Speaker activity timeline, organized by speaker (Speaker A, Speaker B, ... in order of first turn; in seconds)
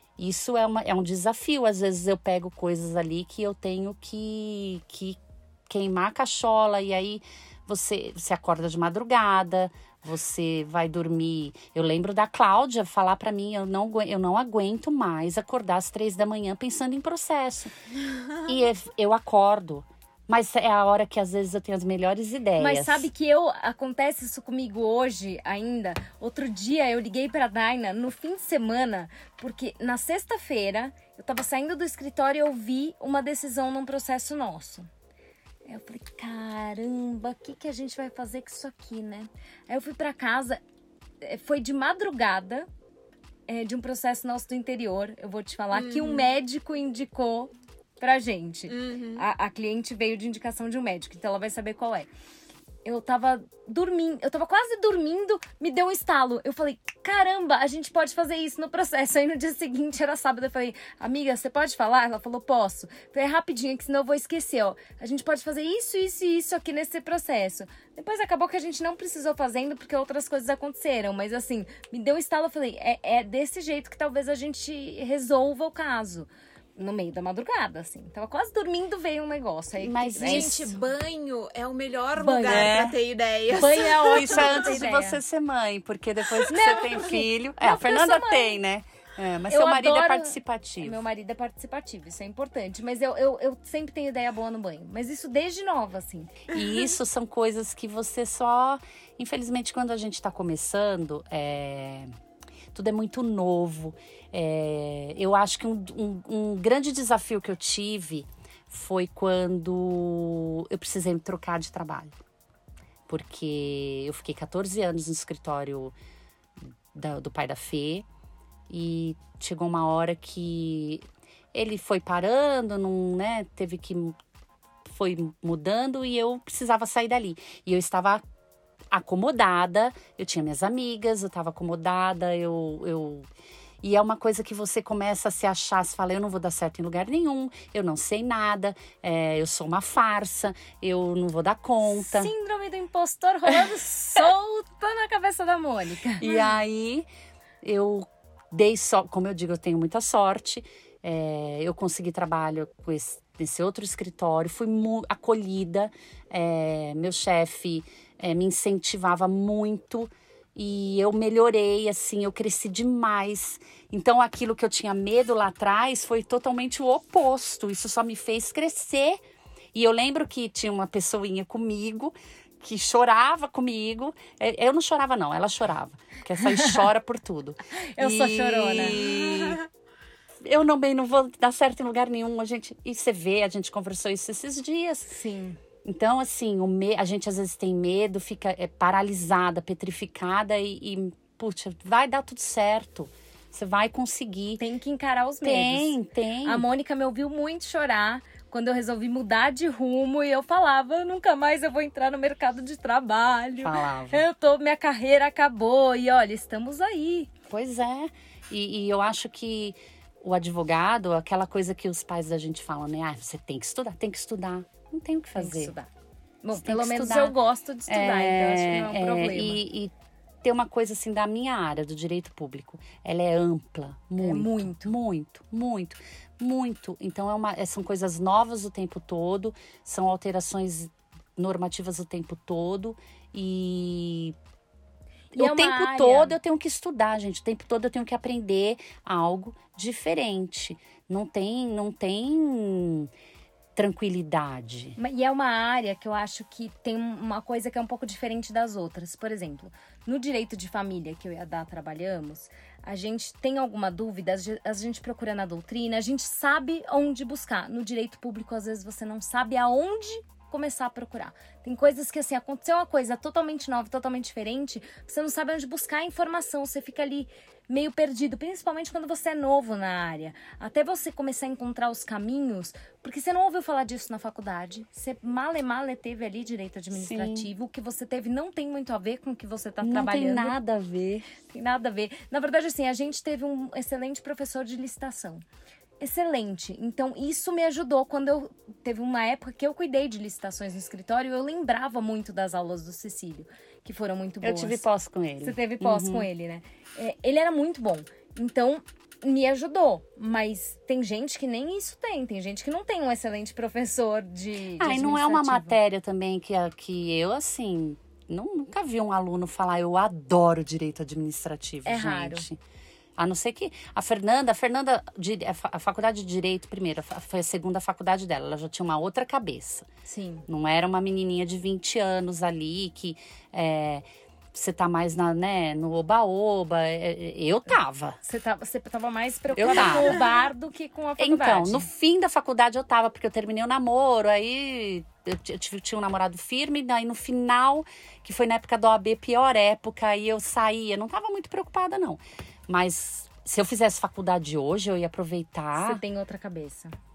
Speaker A: 0.2-17.7, 18.4-23.1, 79.8-80.7, 82.5-83.0, 84.0-91.0, 96.5-102.1, 102.7-112.2, 113.1-116.0, 116.6-118.1, 118.7-124.2, 124.8-128.2, 128.9-133.3, 133.8-142.3, 146.2-147.1, 147.6-169.2, 169.7-179.6, 180.4-185.2, 185.8-194.6, 195.4-196.7, 203.6-204.3, 207.5-215.7, 216.6-217.3, 217.9-219.9, 220.4-234.4, 235.3-243.1, 243.8-245.0, 276.9-277.5, 279.8-281.3, 294.4-296.3, 304.8-312.6, 313.2-319.9, 320.5-328.2, 329.6-330.2, 331.2-346.0
Speaker B: 22.6-34.9, 35.7-40.6, 41.2-42.7, 43.5-52.1, 52.9-80.7, 82.2-82.8, 83.5-85.2, 86.5-88.6, 89.5-96.5, 141.9-146.2, 177.8-179.0, 185.1-185.6, 194.6-207.3, 215.4-215.9, 216.4-219.6, 224.2-224.9, 235.3-236.4, 245.0-280.6, 281.4-285.4, 286.0-294.8, 295.4-305.8, 311.9-312.5, 320.1-320.5, 328.2-331.9, 345.8-346.9
Speaker C: 45.7-46.3, 48.7-49.3, 80.2-84.8, 146.3-146.5, 179.0-179.6